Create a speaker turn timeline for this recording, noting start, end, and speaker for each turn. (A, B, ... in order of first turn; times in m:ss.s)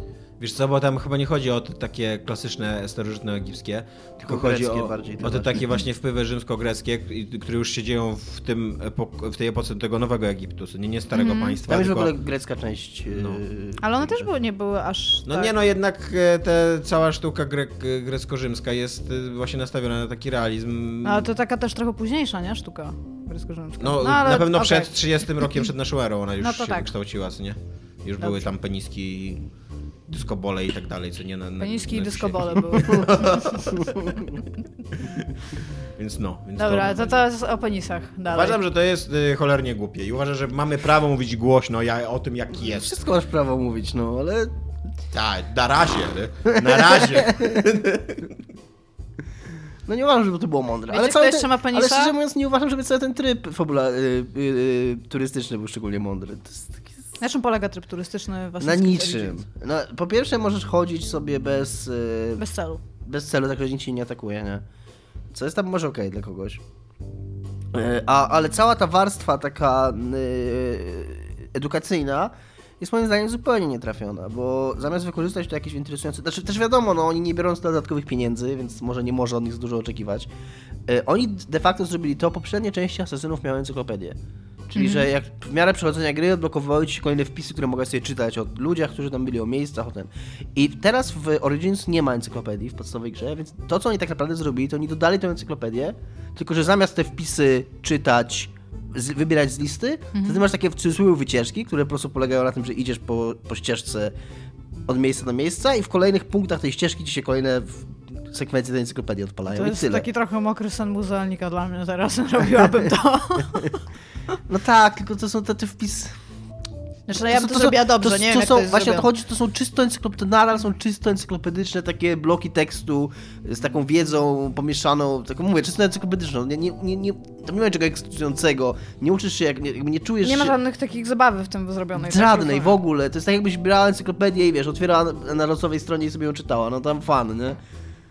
0:00.4-0:12.1 A
0:04.2-0:05.7 B
0:11.1-0:11.6 C
0:11.6-0:14.3 B
0:13.1-0:13.4 A
0:13.8-0:15.5 C
0:15.2-0:21.3 A
0:21.0-0:24.9 C
0:23.8-0:29.4 A
0:26.4-0:26.9 C
0:28.2-0:28.5 C
0:30.1-0:34.3 A
0:31.6-0:33.4 C
0:36.0-0:37.2 A
0:36.6-0:38.6 C
0:38.3-0:43.0 A
0:42.6-0:44.5 B
0:45.1-0:48.3 A
0:46.5-0:47.6 B
0:49.8-0:56.9 B
0:50.9-0:52.1 C
0:57.2-0:59.4 C
0:58.6-1:02.4 B
1:02.4-1:02.8 C
1:03.0-1:04.6 B
1:05.3-1:06.6 B
1:07.7-1:20.3 B
1:20.8-1:24.2 B
1:24.7-1:44.1 B
1:24.7-1:25.1 C
1:40.1-1:40.4 C
1:44.9-1:50.0 B
1:49.5-1:53.8 C
1:54.5-1:56.1 B
1:57.1-1:59.1 C
1:57.1-2:10.5 B
2:10.2-2:12.8 C
2:12.0-2:17.6 B